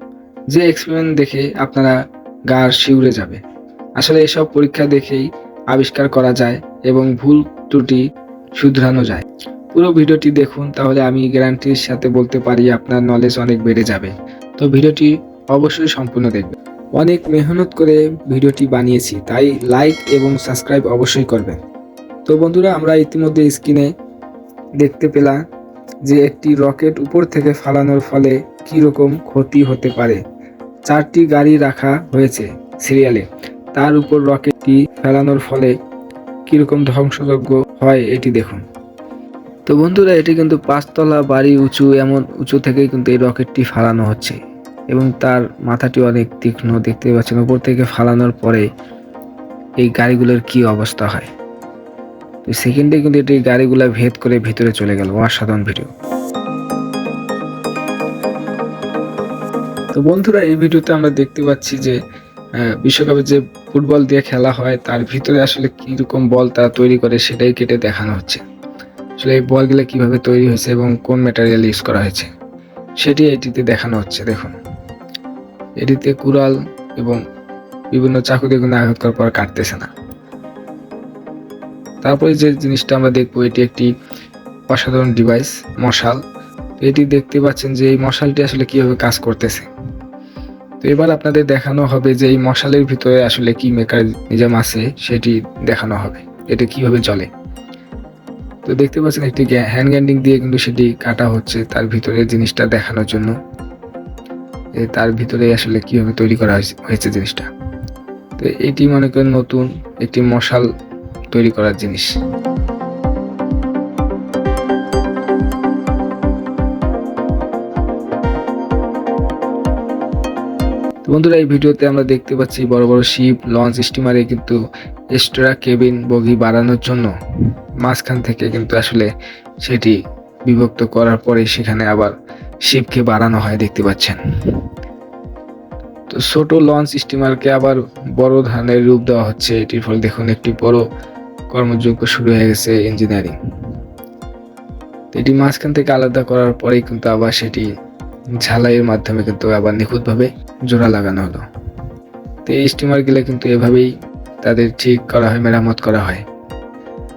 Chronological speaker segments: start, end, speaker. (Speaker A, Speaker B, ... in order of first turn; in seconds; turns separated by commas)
Speaker A: 0.5-1.9, Speaker A: 2.5-3.4, Speaker A: 4.0-8.0, Speaker A: 8.6-21.6, Speaker A: 22.2-23.9, Speaker A: 24.8-25.4, Speaker A: 26.1-30.2, Speaker A: 30.9-35.7, Speaker A: 36.5-38.6, Speaker A: 39.7-44.4, Speaker A: 44.9-48.6, Speaker A: 49.8-51.3, Speaker A: 52.5-55.9, Speaker A: 59.9-62.0, Speaker A: 62.6-68.4, Speaker A: 69.2-72.3, Speaker A: 73.0-74.5, Speaker A: 75.8-77.2, Speaker A: 77.9-79.9, Speaker A: 82.0-83.9, Speaker A: 84.7-86.2, Speaker A: 86.8-89.7, Speaker A: 90.8-97.3, Speaker A: 98.6-103.3, Speaker A: 104.8-107.5, Speaker A: 108.4-110.7, Speaker A: 111.3-112.1, Speaker A: 121.0-124.6, Speaker A: 125.1-127.1, Speaker A: 127.8-129.1, Speaker A: 129.6-132.1, Speaker A: 132.6-134.6, Speaker A: 136.1-140.8, Speaker A: 141.5-143.4, Speaker A: 145.1-147.7, Speaker A: 148.4-151.4, Speaker A: 152.4-153.9, Speaker A: 154.4-156.2